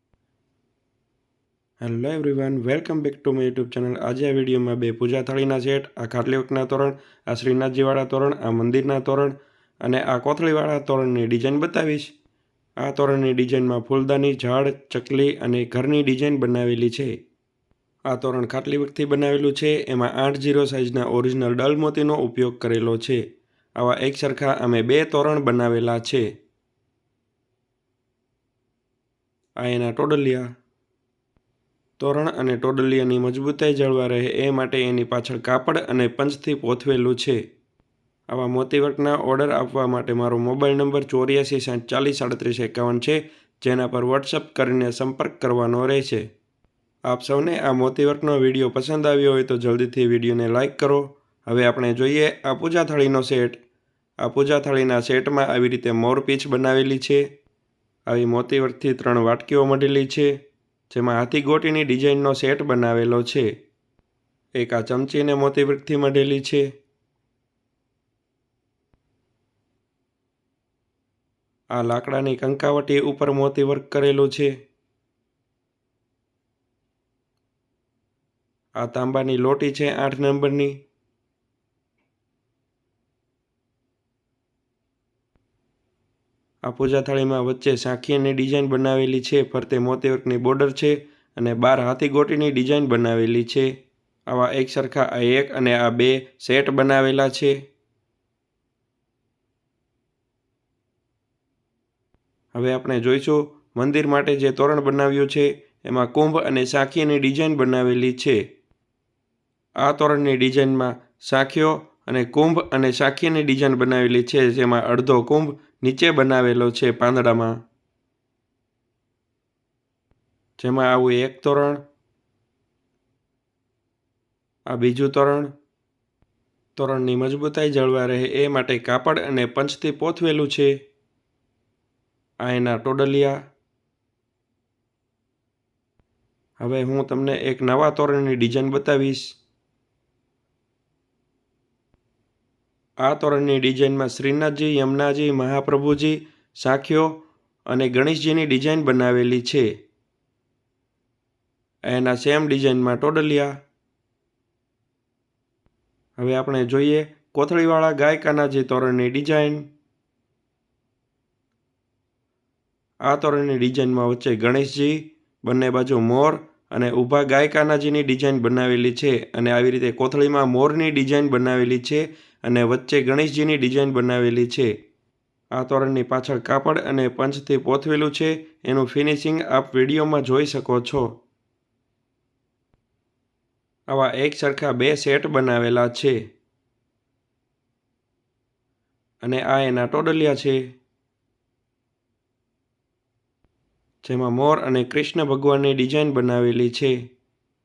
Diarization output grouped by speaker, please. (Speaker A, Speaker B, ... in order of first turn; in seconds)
Speaker A: 1.8-12.1, 12.8-17.1, 18.1-23.2, 23.8-26.3, 29.6-30.6, 32.0-37.4, 38.3-46.3, 47.1-53.6, 54.2-57.2, 58.1-60.3, 60.9-63.5, 64.6-66.7, 71.8-74.5, 78.8-80.8, 86.7-93.7, 94.3-97.6, 102.5-108.4, 109.8-117.6, 120.6-121.8, 124.7-125.5, 126.8-130.7, 132.4-133.4, 136.6-139.4, 143.0-149.7, 151.9-153.6, 156.2-159.7, 163.1-174.7, 175.6-181.2, 183.9-186.2, 189.2-190.8, 194.0-197.0